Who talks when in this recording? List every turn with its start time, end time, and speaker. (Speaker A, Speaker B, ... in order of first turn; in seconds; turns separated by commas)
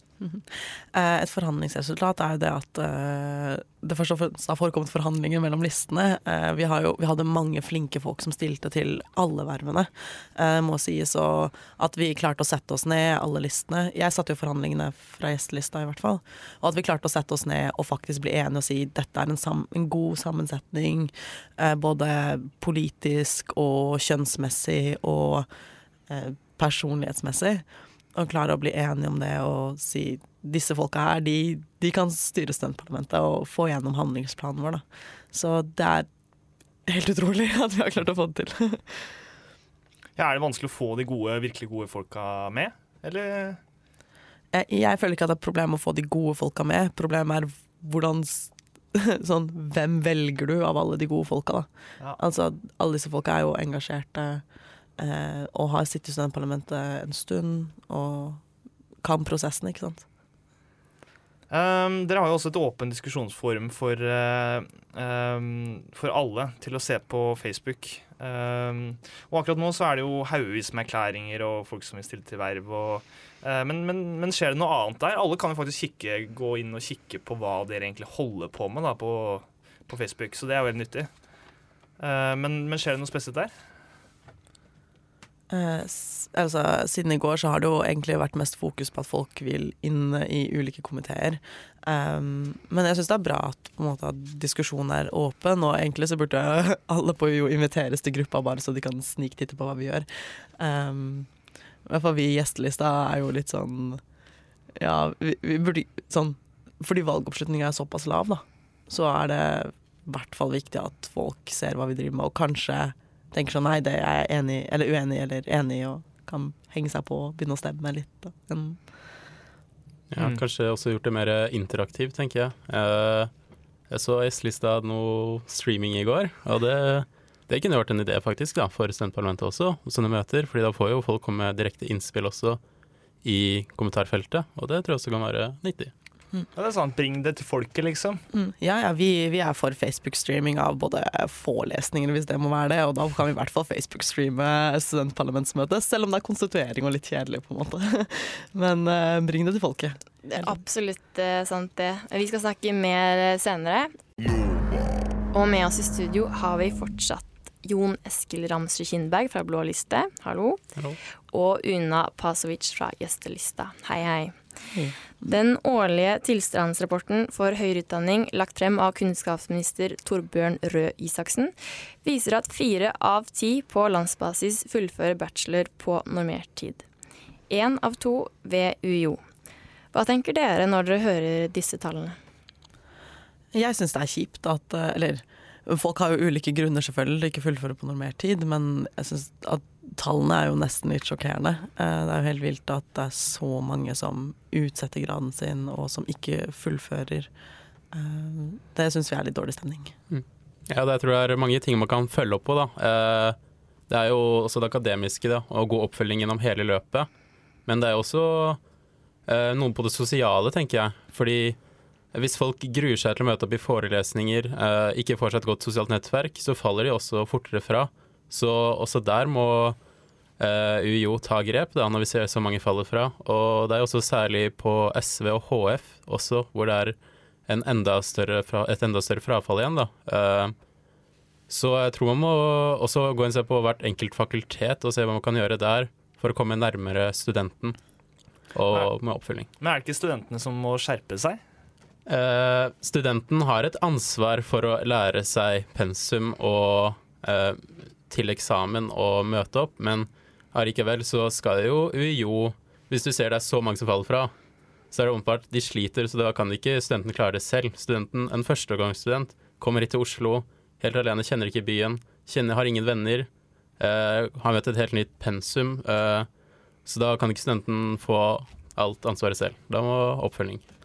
Speaker A: 0.2-25.5, Speaker A: 26.1-36.1, Speaker A: 36.9-39.1, Speaker B: 40.2-43.6, Speaker A: 44.5-54.4, Speaker A: 55.0-58.4, Speaker A: 59.0-60.0, Speaker B: 61.5-81.1, Speaker B: 82.0-83.5, Speaker A: 85.5-100.1, Speaker A: 100.6-101.3, Speaker A: 101.8-104.0, Speaker A: 104.8-118.8, Speaker C: 120.1-123.3, Speaker C: 123.9-132.6, Speaker C: 133.2-135.9, Speaker B: 136.5-138.2, Speaker A: 138.3-150.6, Speaker D: 150.2-153.9, Speaker D: 155.3-160.6, Speaker D: 161.3-164.4, Speaker A: 164.7-165.1, Speaker D: 165.2-176.8, Speaker D: 177.5-179.2, Speaker D: 179.9-182.2, Speaker A: 183.5-197.3, Speaker A: 197.9-199.9, Speaker C: 200.1-203.4, Speaker C: 203.9-207.1, Speaker C: 207.7-208.6, Speaker C: 209.3-211.6, Speaker C: 212.1-219.8, Speaker C: 220.4-230.5, Speaker C: 231.5-237.8, Speaker C: 238.5-239.5, Speaker B: 239.6-241.4, Speaker C: 242.1-254.3, Speaker C: 254.9-266.3, Speaker C: 266.9-270.6